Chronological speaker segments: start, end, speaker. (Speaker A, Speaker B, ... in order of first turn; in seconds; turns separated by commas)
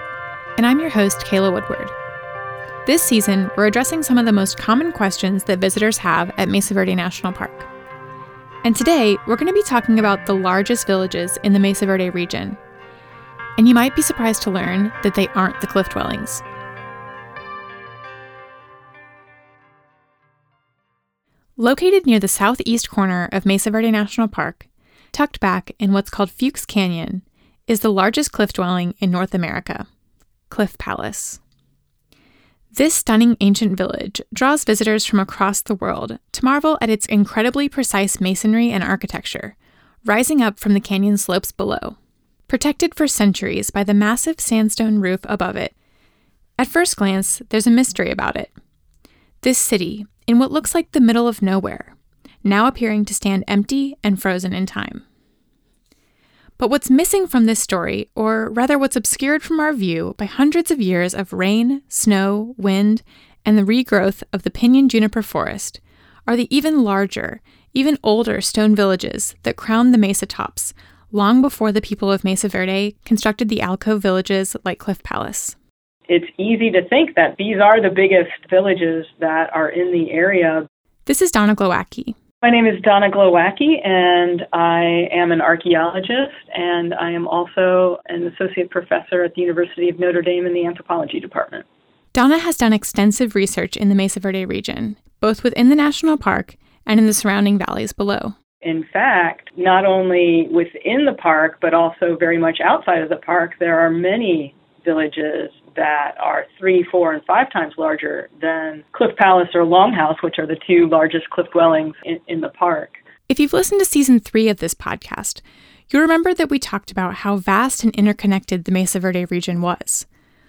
Speaker A: 0.6-1.9, Speaker A: 2.9-7.7, Speaker A: 8.6-12.6, Speaker A: 13.6-16.4, Speaker A: 21.6-29.9, Speaker A: 30.5-31.4, Speaker A: 32.7-42.0, Speaker A: 42.5-45.7, Speaker A: 46.6-48.5, Speaker A: 49.4-55.0, Speaker A: 56.6-75.6, Speaker B: 76.1-80.7, Speaker A: 81.1-82.2, Speaker B: 82.4-91.7, Speaker A: 92.1-98.3, Speaker B: 98.6-113.0, Speaker A: 113.3-120.1